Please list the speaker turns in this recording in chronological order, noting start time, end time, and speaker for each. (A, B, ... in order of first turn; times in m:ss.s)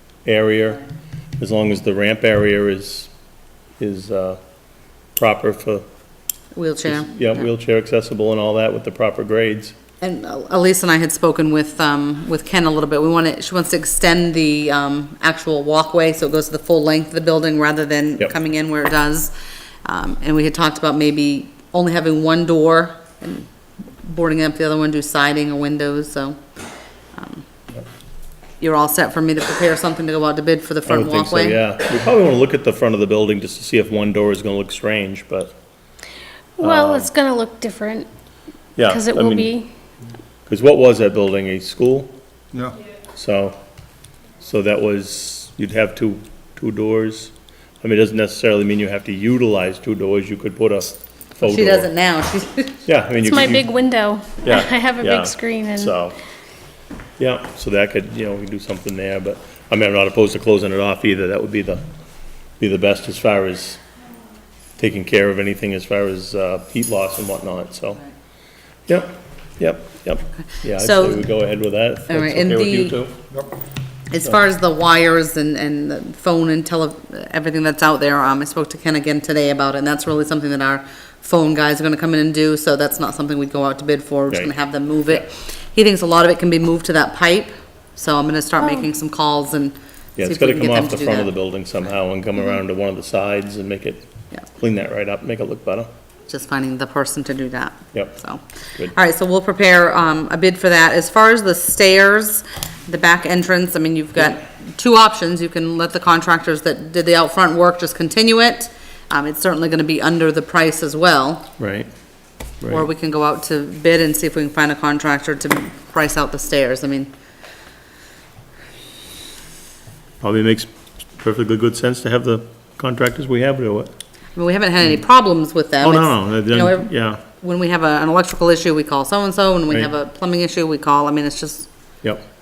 0:00.2-0:00.8 A
0:01.4-0:03.1 A
0:03.8-0:04.4 A
0:05.2-0:05.8 A
0:06.5-0:07.4 B
0:06.9-0:09.8 A
0:10.0-0:19.3 B
0:19.8-0:23.5 B
0:24.0-0:26.4 B
0:27.2-0:27.4 B
0:28.6-0:31.6 B
0:30.9-0:35.6 A
0:36.6-0:38.1 C
0:36.6-0:37.1 A
0:38.8-0:39.6 A
0:38.8-0:39.7 C
0:40.5-0:42.1 A
0:43.1-0:43.6 A
0:44.4-0:51.9 A
0:51.4-0:52.8 B
0:52.9-0:53.7 A
0:53.2-0:56.0 C
0:54.4-0:56.2 A
0:57.2-1:01.8 A
1:02.6-1:03.8 A
1:04.8-1:08.0 A
1:08.9-1:13.2 A
1:10.8-1:11.3 B
1:12.1-1:13.0 B
1:14.1-1:31.3 B
1:30.2-1:35.9 A
1:36.3-1:38.4 B
1:38.9-1:51.5 B
1:51.6-1:51.9 A
1:52.6-1:52.9 A
1:52.7-1:57.1 B
2:00.2-2:03.9 A
2:04.4-2:11.7 B
2:05.8-2:07.2 A